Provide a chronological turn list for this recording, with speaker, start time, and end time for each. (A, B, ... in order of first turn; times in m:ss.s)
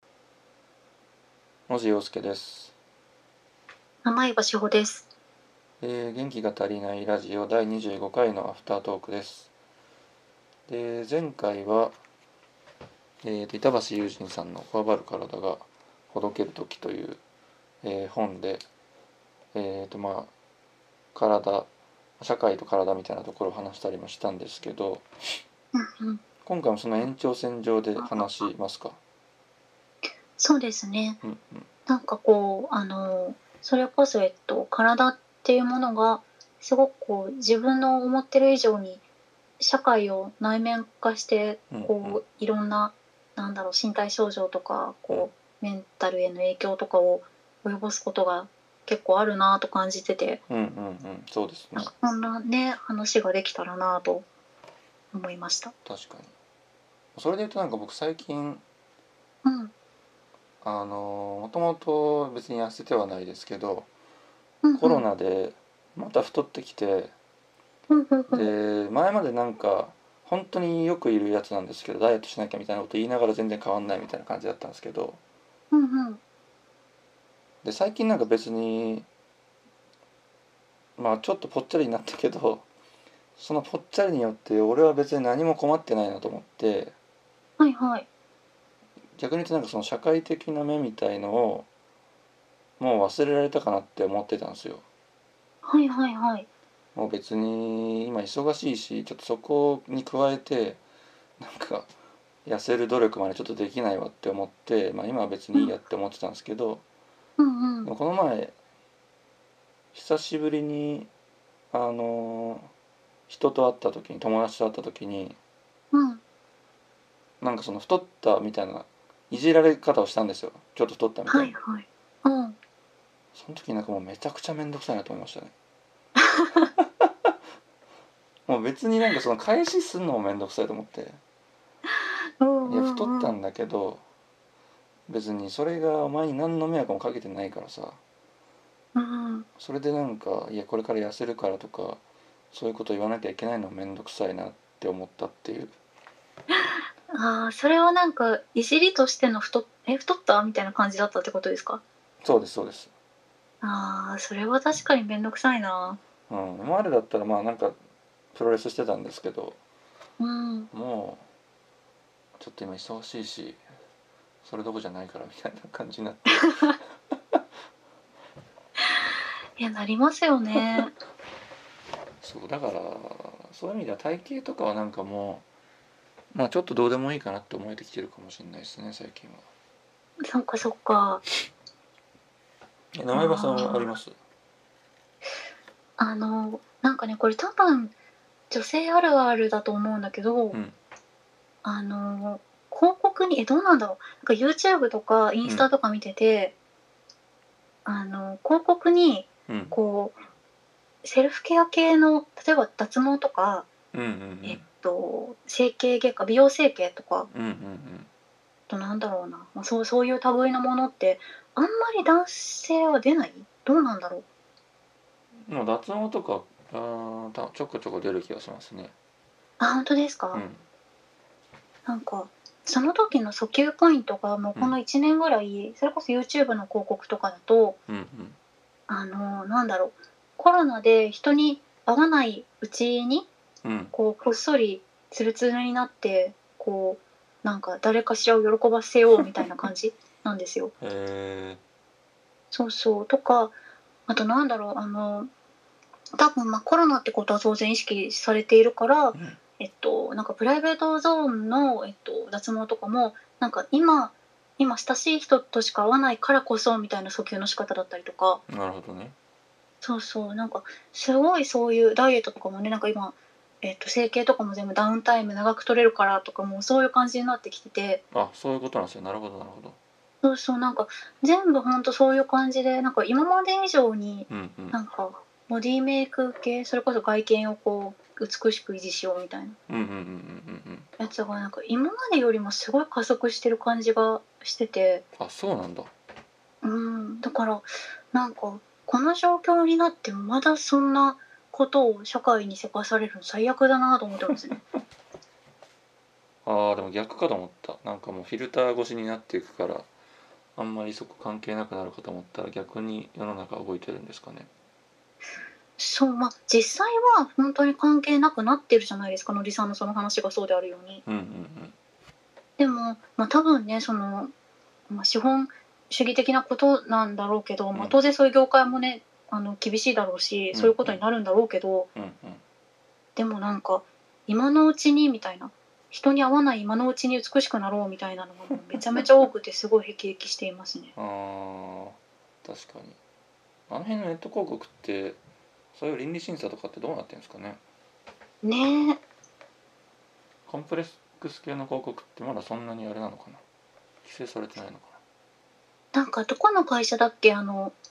0:01.7-0:02.8 A
0:04.0-0:05.1 B
0:05.8-0:09.5 A
0:10.7-0:11.9 A
0:13.2-0:17.2 A
0:17.8-0:18.6 A
0:19.5-0:20.3 A
0:21.1-0:21.7 A
0:22.2-0:25.1 A
0:25.7-0:26.2 B
0:26.4-0:29.0 A
0:30.4-0:31.2 B
0:31.2-0:31.7 A
0:31.9-0:39.0 B
0:39.6-0:50.4 B
0:41.7-0:42.2 A
0:50.5-0:51.9 A
0:51.8-0:54.2 B
0:55.1-0:55.7 B
0:55.8-0:56.3 A
0:57.2-0:58.6 A
0:59.4-0:59.7 B
1:00.6-1:03.9 A
1:04.6-1:05.0 B
1:04.8-1:07.1 A
1:07.9-1:08.5 B
1:08.3-1:15.2 A
1:15.7-1:16.2 B
1:17.6-1:19.1 A
1:21.0-1:22.7 A
1:23.4-1:27.0 A
1:27.6-1:28.1 B
1:29.2-1:31.7 A
1:32.8-1:34.8 A
1:35.6-1:36.5 B
1:37.0-1:40.8 A
1:41.4-1:41.9 A
1:42.4-1:46.8 A
1:47.4-1:47.9 B
1:47.8-1:48.5 A
1:49.9-1:51.1 A
1:51.7-1:52.7 A
1:53.3-1:55.4 A
1:55.9-1:56.2 B
1:57.4-2:01.5 A
2:01.3-2:02.6 B
2:03.3-2:05.5 A
2:06.2-2:06.7 B
2:06.8-2:07.3 A
2:08.5-2:11.2 A
2:12.4-2:13.3 B
2:12.6-2:14.0 A
2:15.1-2:18.0 A
2:19.0-2:19.5 B
2:19.6-2:22.0 A
2:22.5-2:25.8 A
2:27.1-2:31.8 B
2:32.2-2:32.9 A
2:33.6-2:36.0 B
2:36.3-2:37.8 A
2:38.3-2:39.6 A
2:40.2-2:40.7 B
2:40.7-2:41.2 A
2:42.4-2:43.6 A
2:44.4-2:46.7 A
2:49.6-2:50.9 B
2:52.2-2:55.5 A
2:56.3-2:59.4 A
3:00.2-3:01.2 B
3:03.0-3:04.2 A
3:03.1-3:03.9 B
3:06.0-3:07.9 B
3:08.5-3:10.6 B
3:11.6-3:16.5 B
3:17.9-3:20.2 B
3:19.5-3:19.8 A
3:21.0-3:23.7 B
3:23.9-3:24.6 A
3:24.4-3:27.3 B
3:27.3-3:28.1 A
3:28.7-3:34.2 B
3:35.4-3:38.9 A
3:39.6-3:40.4 B
3:40.3-3:40.6 A
3:41.9-3:47.8 B
3:47.9-3:48.4 A
3:48.9-3:53.3 B
3:53.6-3:53.9 A
3:53.9-4:00.7 B
4:00.8-4:01.6 A
4:02.5-4:03.6 B
4:04.1-4:05.3 B
4:06.2-4:18.4 B
4:09.1-4:09.4 A
4:18.5-4:19.2 A
4:19.8-4:28.0 B
4:28.1-4:29.8 A
4:30.2-4:39.6 B
4:34.3-4:34.8 A
4:39.7-4:40.9 A
4:41.0-4:45.0 B
4:45.2-4:45.9 A
4:46.6-4:54.6 B
4:56.4-4:59.9 A
5:00.6-5:04.5 A
5:05.8-5:11.0 B
5:11.0-5:11.8 A
5:12.6-5:14.3 B
5:14.9-5:21.9 B
5:20.5-5:21.0 A
5:22.0-5:22.4 A
5:23.2-5:30.9 B
5:31.0-5:33.0 A
5:33.7-5:35.2 A
5:35.7-5:37.6 A
5:38.4-5:39.0 B
5:40.5-5:43.4 A
5:44.0-5:45.0 A
5:45.9-5:47.8 B